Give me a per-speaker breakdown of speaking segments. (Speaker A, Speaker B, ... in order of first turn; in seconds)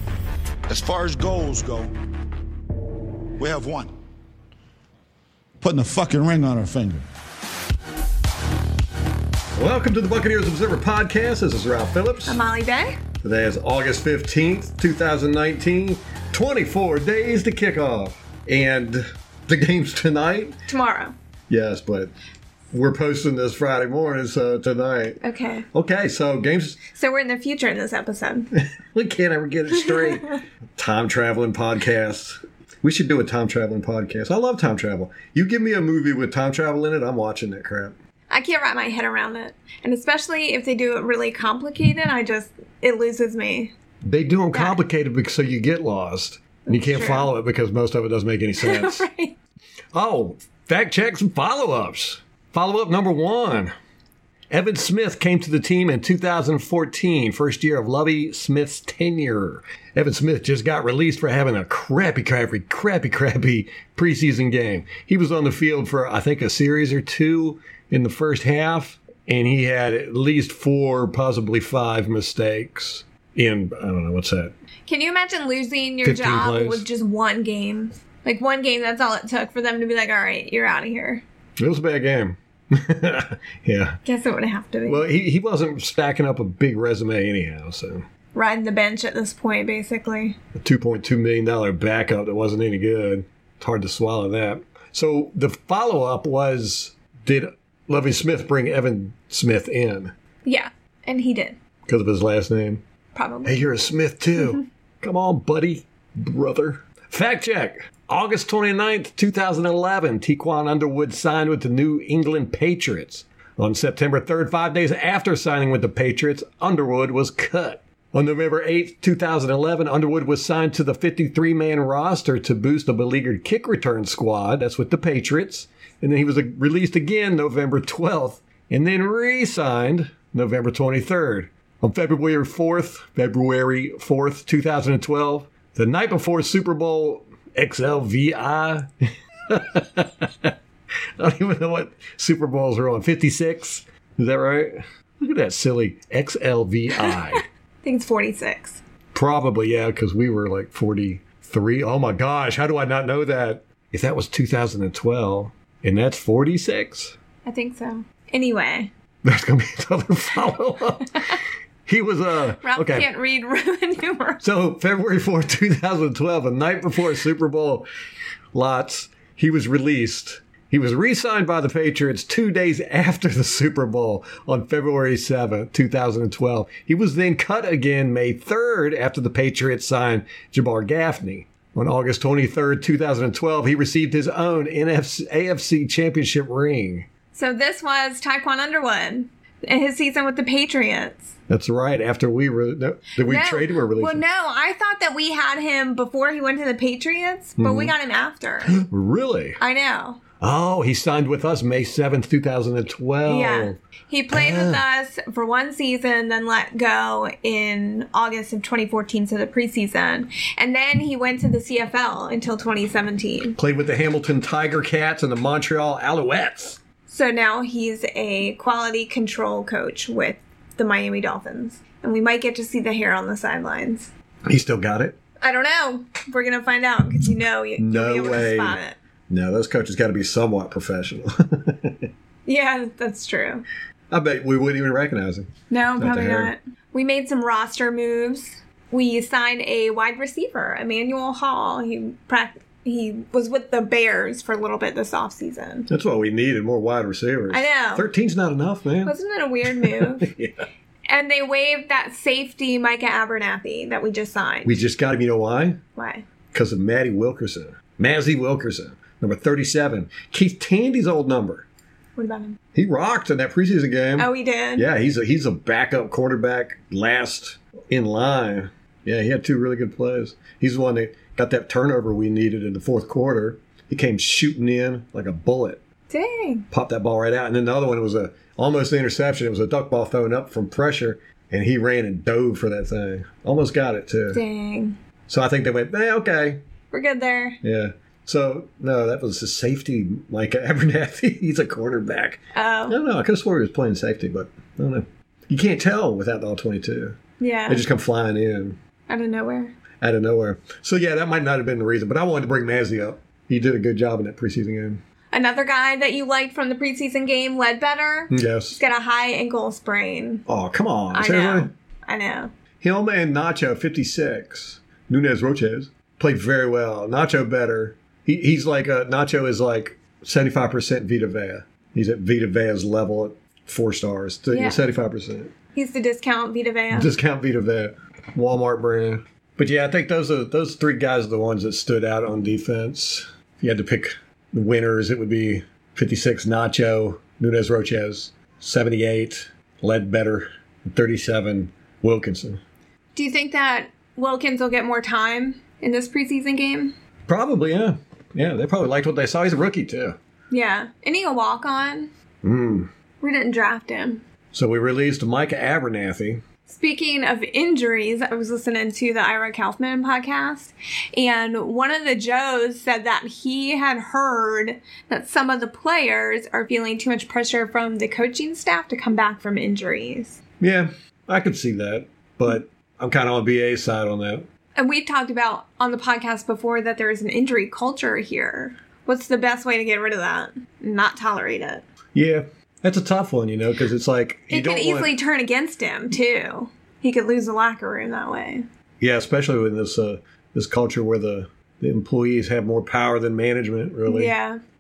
Speaker A: 0.7-1.9, 3.4-3.9, 5.6-7.0
Speaker B: 9.6-12.4, 13.2-20.6, 21.5-22.1, 22.7-25.2, 25.7-26.8, 28.8-38.0, 44.0-49.0, 49.9-53.7, 54.5-74.5, 76.0-76.9, 81.6-84.0, 84.9-88.0, 90.5-100.1, 101.9-102.8, 103.5-140.5, 141.2-147.4, 149.1-157.2, 159.2-161.3, 161.9-163.1, 164.4-167.8, 168.5-187.1, 191.5-194.2, 197.6-197.9, 198.7-199.6, 200.4-203.8, 204.3-204.8, 213.6-216.8, 224.5-225.2, 227.8-228.8, 229.3-232.1, 234.1-236.5, 245.9-249.2, 249.7-250.7, 254.7-255.8, 256.5-261.7, 262.8-275.8, 276.7-284.4, 285.3-286.6, 287.6-298.8, 300.0-305.0, 308.3-308.8, 310.5-311.7, 312.8-325.5, 326.9-342.6, 347.3-350.2, 352.4-352.9, 354.5-356.4, 370.6-374.5, 382.1-385.1, 389.0-394.3
Speaker C: 12.3-13.0, 20.7-21.1, 25.2-25.7, 26.9-28.5, 38.3-43.7, 44.5-44.8, 46.7-47.3, 48.6-49.4, 74.9-81.2, 84.0-85.0, 88.3-90.4, 100.5-101.6, 103.2-103.6, 147.0-148.8, 157.4-158.9, 162.6-164.4, 187.3-191.3, 193.2-198.8, 199.6-200.2, 203.3-213.6, 217.1-224.1, 225.4-229.0, 232.5-233.7, 235.7-245.9, 247.5-248.1, 249.0-250.3, 251.1-254.8, 255.9-256.3, 262.2-262.6, 264.2-264.9, 276.1-276.7, 284.3-285.0, 286.9-287.6, 292.5-293.0, 297.4-297.8, 299.1-299.8, 305.3-310.5, 311.1-312.5, 324.5-324.9, 325.8-327.1, 343.1-346.9, 350.5-352.1, 353.2-354.2, 356.7-370.4, 374.8-381.9, 384.5-388.6, 394.1-394.6